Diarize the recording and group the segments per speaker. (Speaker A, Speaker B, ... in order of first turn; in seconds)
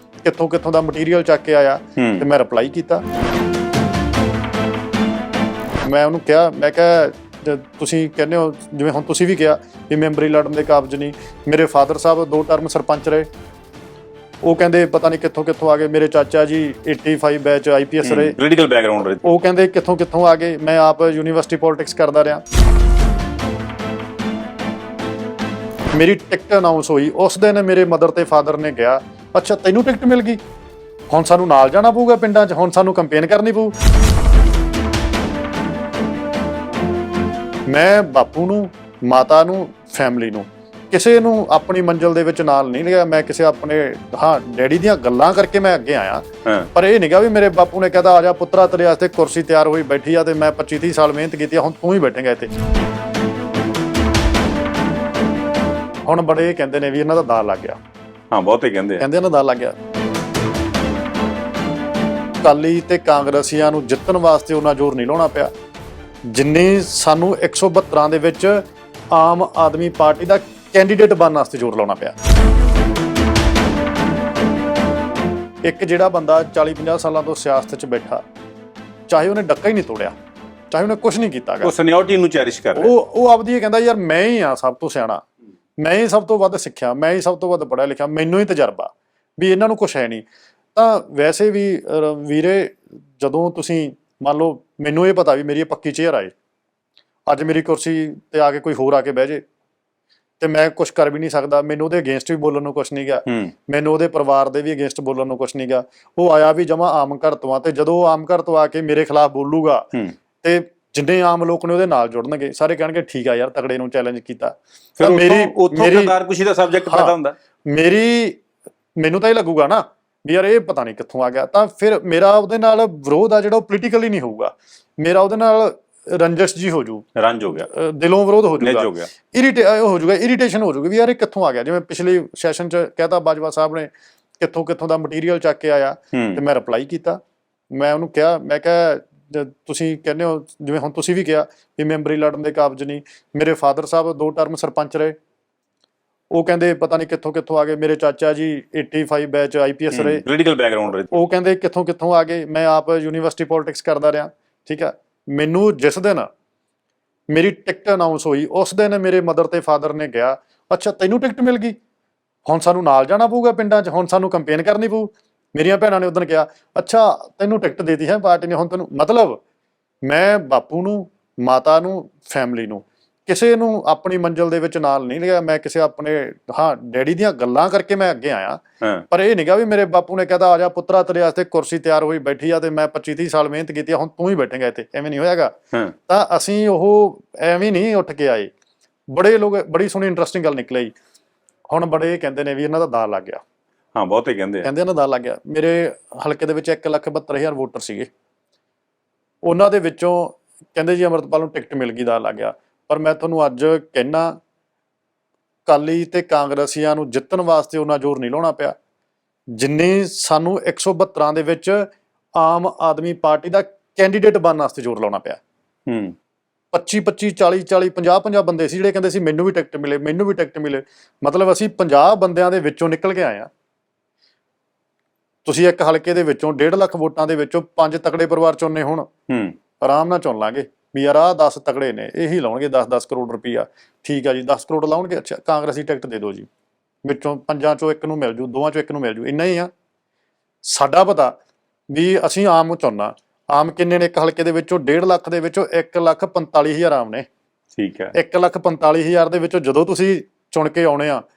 Speaker A: 0.2-3.0, 5.8-13.3, 14.4-18.4, 19.2-22.4, 25.9-30.4, 31.1-33.7, 37.7-52.5, 56.0-57.8, 59.0-59.7, 62.4-65.5, 66.3-72.1, 75.6-78.2, 79.1-80.1, 80.7-81.7, 82.8-85.2, 85.8-96.3, 97.3-99.4, 100.4-109.9, 110.4-116.1, 116.8-117.1, 117.7-118.4, 119.0-127.0, 127.6-137.2, 137.7-145.2, 146.3-150.2, 151.1-156.3, 157.3-161.8, 162.5-169.4, 170.0-185.5, 186.1-188.5, 189.1-190.9, 191.7-193.4, 194.6-198.1, 199.4-204.3, 205.7-208.7, 209.5-215.4, 216.7-223.5, 225.4-229.1, 229.8-236.5, 237.0-239.7, 240.6-241.4, 241.9-247.2, 248.1-251.2
Speaker B: 2.0-2.2, 18.0-19.2, 58.3-59.0, 81.6-82.9, 103.3-103.5, 115.0-117.3, 127.2-127.7, 128.6-129.1, 136.1-136.4, 149.9-151.1, 193.9-194.7, 215.9-216.1, 229.3-229.5, 247.8-248.1